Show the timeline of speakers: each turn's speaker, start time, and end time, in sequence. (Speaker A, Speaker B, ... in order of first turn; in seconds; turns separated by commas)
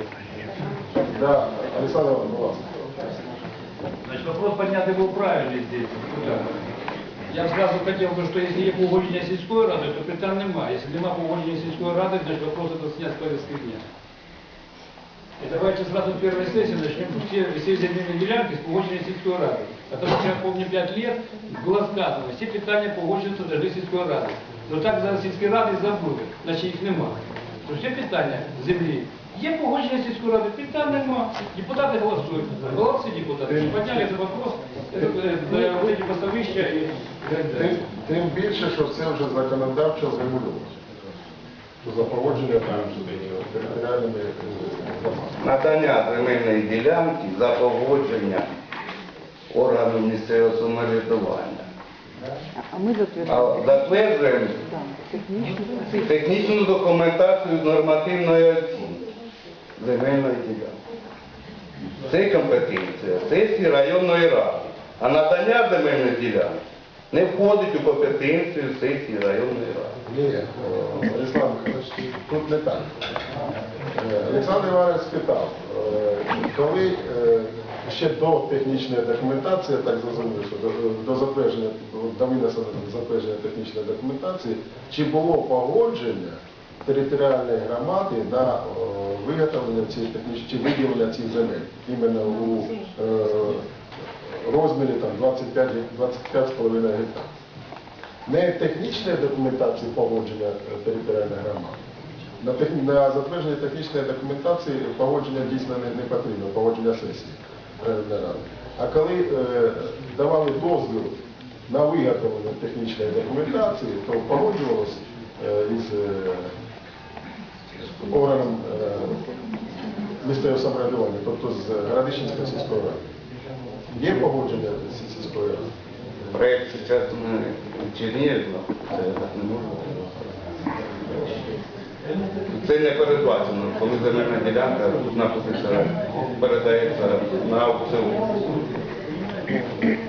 Speaker A: 0.9-2.7, Speaker B: 4.0-6.5, Speaker B: 7.3-13.8, Speaker B: 15.4-37.8, Speaker A: 37.5-40.8, Speaker A: 41.8-45.4, Speaker C: 45.4-48.5, Speaker C: 49.5-51.6, Speaker D: 52.5-53.6, Speaker C: 53.2-54.6, Speaker D: 54.7-56.0, Speaker C: 56.0-59.0, Speaker C: 59.8-60.7, Speaker C: 62.1-66.5, Speaker C: 67.1-70.0, Speaker A: 70.1-72.9, Speaker A: 73.9-93.7, Speaker A: 94.2-97.3, Speaker A: 98.2-101.8, Speaker A: 102.4-116.5, Speaker A: 118.0-119.2, Speaker A: 120.2-123.0, Speaker A: 123.9-125.7, Speaker C: 126.3-130.0, Speaker C: 132.5-138.5